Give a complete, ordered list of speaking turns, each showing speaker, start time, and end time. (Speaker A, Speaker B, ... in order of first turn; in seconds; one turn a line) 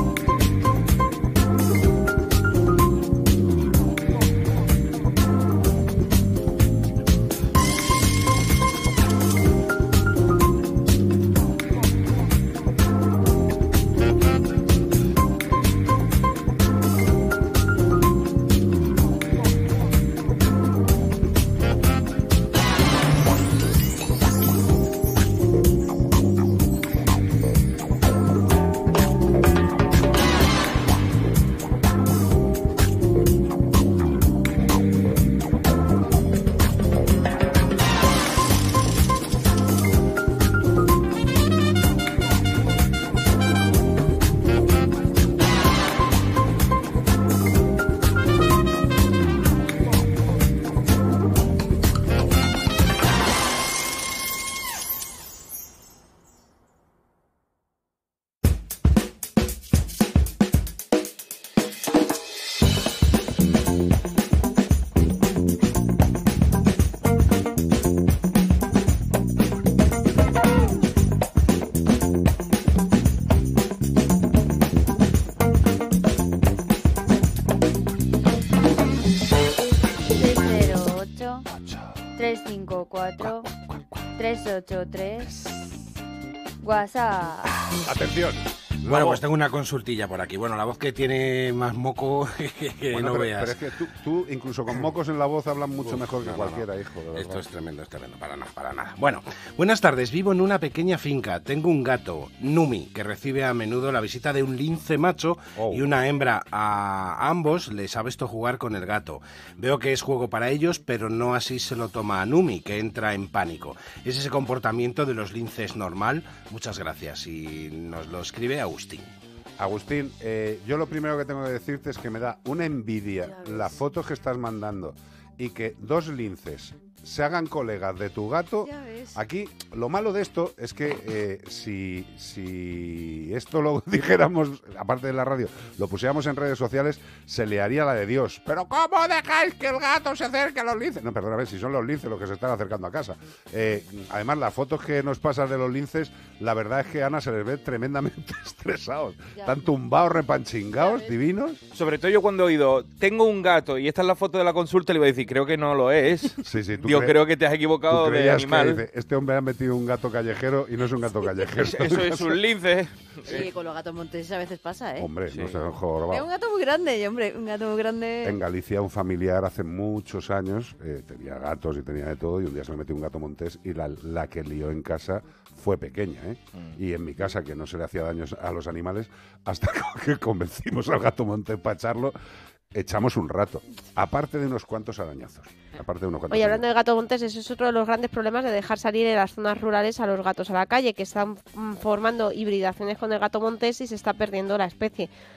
Speaker A: 80.1-81.5
Speaker A: 82.2-83.5
Speaker A: 84.2-85.5
Speaker A: 86.6-87.5
Speaker B: 87.9-89.2
Speaker C: 88.8-93.7
Speaker B: 92.9-97.5
Speaker C: 95.8-119.1
Speaker B: 105.6-105.9
Speaker B: 119.6-151.6
Speaker D: 128.6-129.2
Speaker E: 151.7-158.8
Speaker B: 156.4-157.2
Speaker B: 157.9-162.4
Speaker E: 161.5-163.5
Speaker D: 163.3-165.1
Speaker B: 165.0-166.3
Speaker E: 165.3-165.6
Speaker D: 166.1-168.4
Speaker B: 168.2-182.1
Speaker B: 182.7-186.6
Speaker F: 186.3-195.1